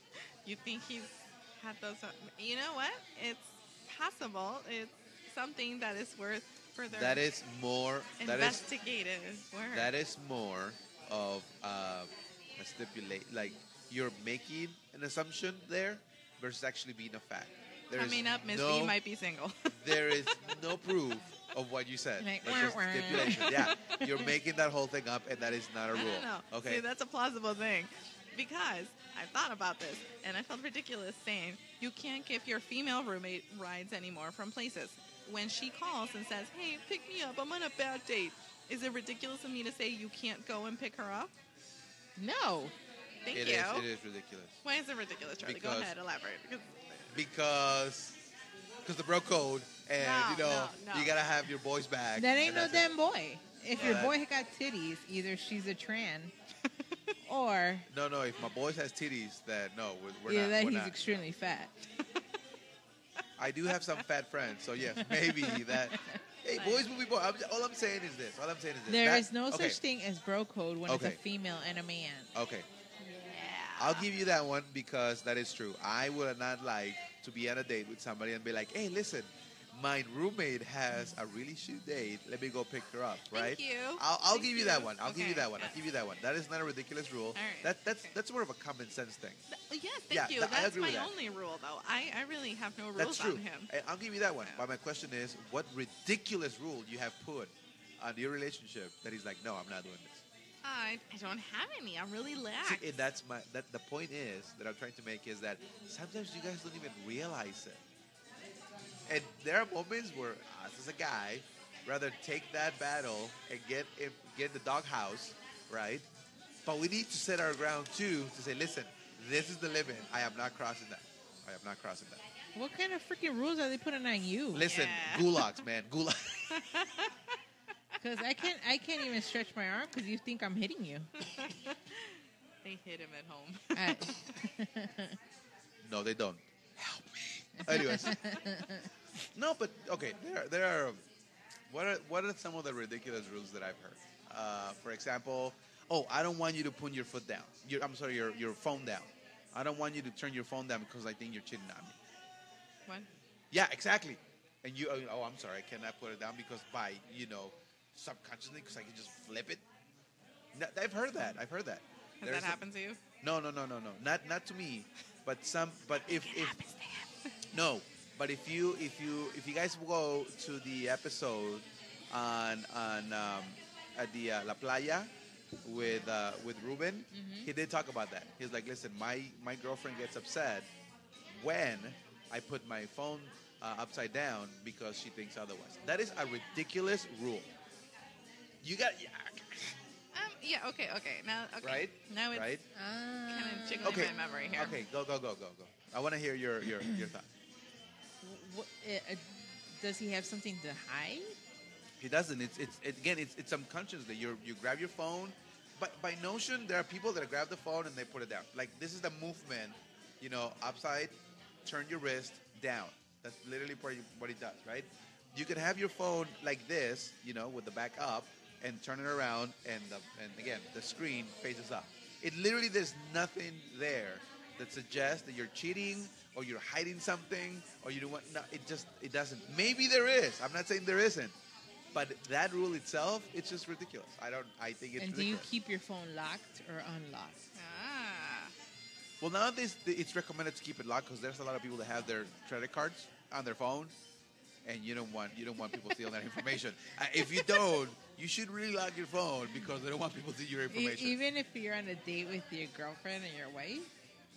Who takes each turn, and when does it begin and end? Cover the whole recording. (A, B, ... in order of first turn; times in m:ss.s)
0:00.4-0:07.2 A
0:06.9-0:08.6 B
0:08.2-0:09.9 A
0:09.7-0:19.0 B
0:17.9-0:20.3 A
0:19.7-0:26.8 B
0:22.2-0:23.7 C
0:23.2-0:24.3 A
0:25.9-0:41.3 A
0:42.2-0:42.7 C
0:43.2-0:43.9 A
0:43.3-0:44.6 B
0:44.6-0:47.2 A
0:45.4-0:45.9 B
0:47.1-0:48.2 B
0:48.8-0:52.9 B
0:50.0-0:51.1 A
0:52.2-0:56.3 C
0:53.7-0:54.1 B
0:56.7-0:57.1 A
0:57.2-0:57.9 C
0:57.9-1:01.0 B
1:00.3-1:01.7 C
1:03.4-1:09.8 B
1:03.7-1:04.0 A
1:05.9-1:06.2 C
1:06.5-1:06.9 A
1:08.9-1:12.3 C
1:10.9-1:11.2 B
1:12.3-1:12.7 B
1:13.0-1:14.1 A
1:13.8-1:29.4 B
1:23.3-1:25.7 A
1:27.3-1:28.1 A
1:29.5-1:33.7 A
1:30.1-1:31.1 B
1:33.0-1:40.2 B
1:40.6-1:43.0 A
1:42.6-1:47.8 B
1:49.0-1:56.0 B
1:56.6-2:02.2 B
2:02.5-2:04.7 C
2:04.5-2:06.7 B
2:04.6-2:05.6 A
2:06.5-2:07.4 A
2:08.0-2:11.1 C
2:11.2-2:14.4 A
2:13.7-2:15.2 C
2:15.8-2:18.3 B
2:17.6-2:18.9 C
2:19.3-2:21.0 B
2:21.7-2:32.0 B
2:33.5-2:39.6 B
2:40.5-2:42.6 B
2:42.2-2:43.0 A
2:43.2-2:46.6 B
2:45.9-2:47.3 A
2:47.5-2:55.1 B
2:55.6-3:00.7 B
2:57.1-2:57.5 C
3:01.4-3:07.5 B
3:08.6-3:09.8 B
3:10.1-3:12.5 A
3:11.6-3:12.6 B
3:12.7-3:14.8 C
3:13.3-3:14.8 A
3:13.8-3:17.3 B
3:18.2-3:21.4 C
3:22.0-3:51.3 B
3:51.9-3:55.5 B
3:55.0-3:57.5 C
3:57.5-3:58.5 A
3:59.2-4:03.9 B
4:04.6-4:11.2 B
4:10.7-4:13.9 C